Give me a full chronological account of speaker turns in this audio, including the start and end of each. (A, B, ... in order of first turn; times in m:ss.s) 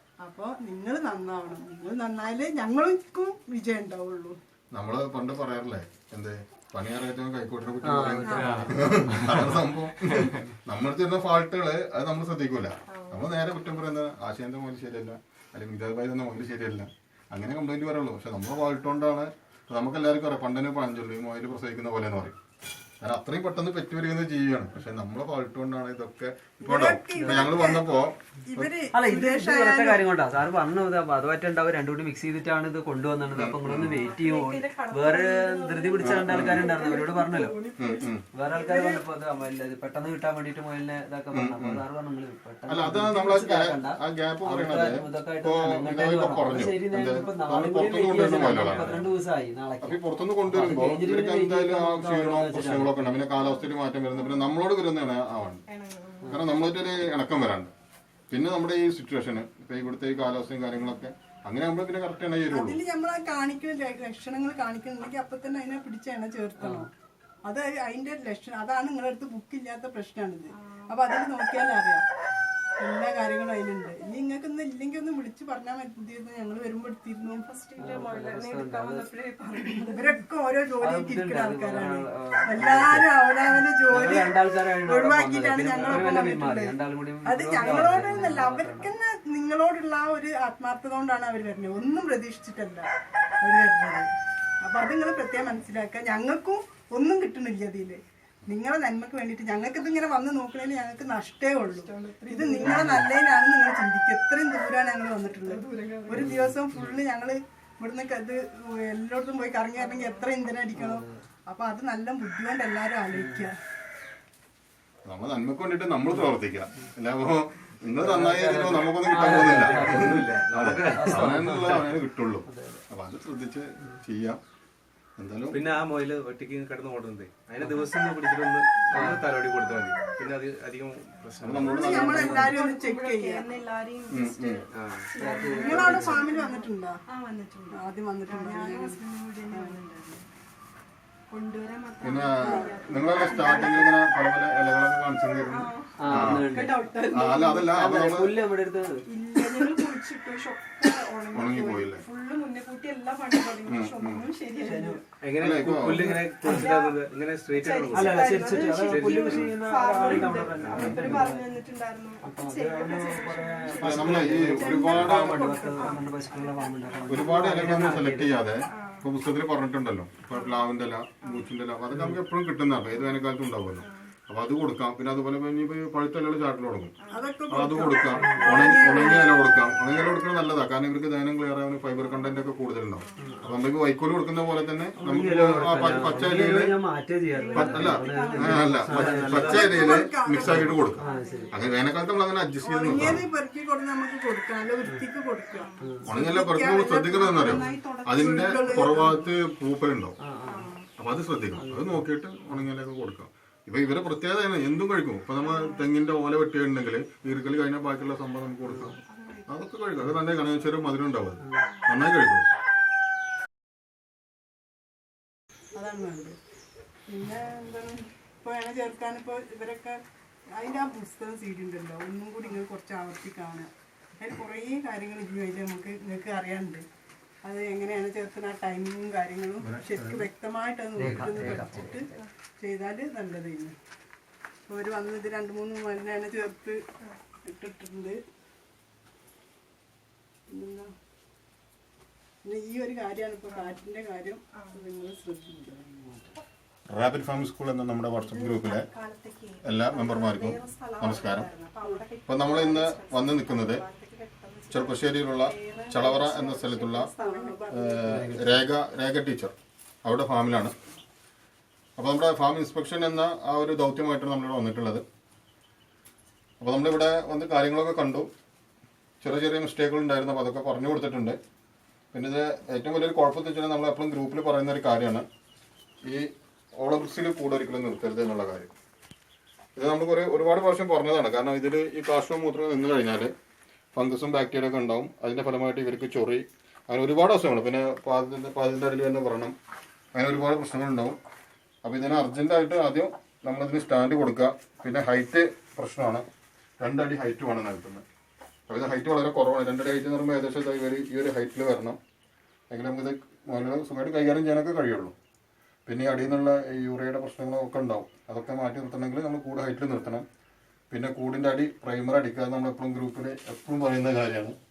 0:00.2-0:04.4 A
0:04.7-0:22.4 B
0:07.8-0:09.3 C
0:08.2-0:09.0 D
0:09.2-0:09.6 E
0:12.9-0:13.2 D
0:23.0-0:28.7 B
0:26.6-0:27.8 A
0:27.2-0:27.5 C
0:28.5-0:30.0 A
0:28.9-0:37.6 C
0:33.3-0:34.0 B
0:33.8-0:39.0 D
0:36.0-0:36.7 B
0:37.8-0:38.2 B
0:38.3-0:53.2 C
0:41.3-0:41.8 B
0:42.7-0:49.1 B
0:47.1-0:47.4 D
0:48.3-0:49.0 D
0:49.8-0:55.6 B
0:53.4-0:54.5 D
0:55.7-0:56.4 D
0:56.3-0:57.7 B
0:58.3-1:02.8 B
1:02.5-1:06.9 A
1:06.6-1:06.9 C
1:07.4-1:12.0 A
1:10.6-1:10.8 D
1:12.8-1:17.4 A
1:17.3-1:20.2 D
1:17.8-1:19.1 C
1:19.9-1:32.9 A
1:20.8-1:23.1 C
1:23.9-1:28.9 C
1:33.4-1:34.1 A
1:34.6-1:53.5 A
1:41.6-1:42.9 D
1:42.6-1:43.0 C
1:45.4-1:46.4 D
1:46.1-1:46.9 C
1:49.8-1:50.2 D
1:50.8-1:51.2 C
1:53.1-1:53.5 C
1:55.0-2:04.4 B
1:58.0-2:00.4 C
1:59.6-2:01.7 E
2:00.9-2:02.8 C
2:05.2-2:05.6 B
2:05.5-2:12.5 E
2:08.9-2:09.2 C
2:09.4-2:10.3 D
2:11.4-2:12.5 B
2:11.4-2:20.2 D
2:11.7-2:13.4 A
2:14.1-2:14.6 B
2:14.8-2:15.2 E
2:15.2-2:16.2 C
2:15.4-2:17.0 A
2:17.7-2:19.0 A
2:19.5-2:19.8 A
2:21.3-2:23.9 D
2:22.0-2:28.3 B
2:22.4-2:22.7 A
2:25.4-2:27.7 D
2:26.0-2:26.8 C
2:27.6-2:29.0 C
2:29.1-2:35.0 D
2:31.3-2:32.0 B
2:33.6-2:34.3 B
2:34.6-2:35.0 C
2:35.2-2:41.2 E
2:35.4-2:36.1 B
2:35.9-2:36.6 C
2:36.4-2:48.0 D
2:37.9-2:41.6 C
2:40.8-2:41.2 B
2:42.2-2:48.3 C
2:43.8-2:45.3 B
2:47.1-2:56.9 B
2:48.7-2:49.1 D
2:50.3-2:50.7 D
2:51.2-2:51.5 D
2:52.9-2:53.2 D
2:53.8-2:54.1 D
2:57.0-2:57.3 D
2:57.1-2:59.3 A
2:57.5-3:06.8 B
2:57.8-2:59.3 D
2:58.2-2:58.5 C
3:02.1-3:02.4 D
3:03.0-3:03.3 D
3:03.2-3:03.5 C
3:05.0-3:09.8 C
3:07.3-3:11.7 D
3:07.5-3:13.2 B
3:09.4-3:11.0 A
3:10.4-3:11.5 C
3:12.6-3:19.2 A
3:15.5-3:15.9 D
3:15.8-3:16.1 C
3:16.0-3:20.1 B
3:17.2-3:19.1 D
3:20.2-3:20.7 C
3:20.4-3:20.9 D
3:21.0-3:32.5 B
3:21.5-3:22.6 C
3:25.4-3:25.8 D
3:28.7-3:29.0 C
3:29.1-3:29.5 D
3:31.6-3:32.0 D
3:35.7-3:36.4 A
3:37.1-3:40.0 A
3:40.6-3:43.7 A
3:44.2-3:46.8 A
3:47.4-3:52.1 A
3:49.8-3:50.2 B
3:51.0-3:52.1 C
3:52.6-3:53.7 A
3:54.7-3:56.8 A
3:57.4-3:58.2 A
4:00.5-4:00.9 A
4:02.4-4:06.2 A
4:06.9-4:08.9 B
4:08.2-4:18.0 D
4:09.6-4:11.5 B
4:12.3-4:13.8 B
4:14.7-4:17.1 B
4:17.1-4:17.9 A
4:17.7-4:20.7 B
4:18.1-4:18.6 C
4:22.0-4:25.0 B
4:26.6-4:28.3 B
4:29.2-4:31.4 B
4:32.1-4:35.2 B
4:36.8-4:38.7 B
4:39.8-4:43.3 B
4:43.9-4:49.5 B
4:50.1-4:51.2 B
4:51.8-4:56.2 B
4:56.8-4:58.0 B
4:58.7-5:02.0 B
5:02.7-5:05.1 B
5:05.8-5:10.2 B
5:10.9-5:14.5 B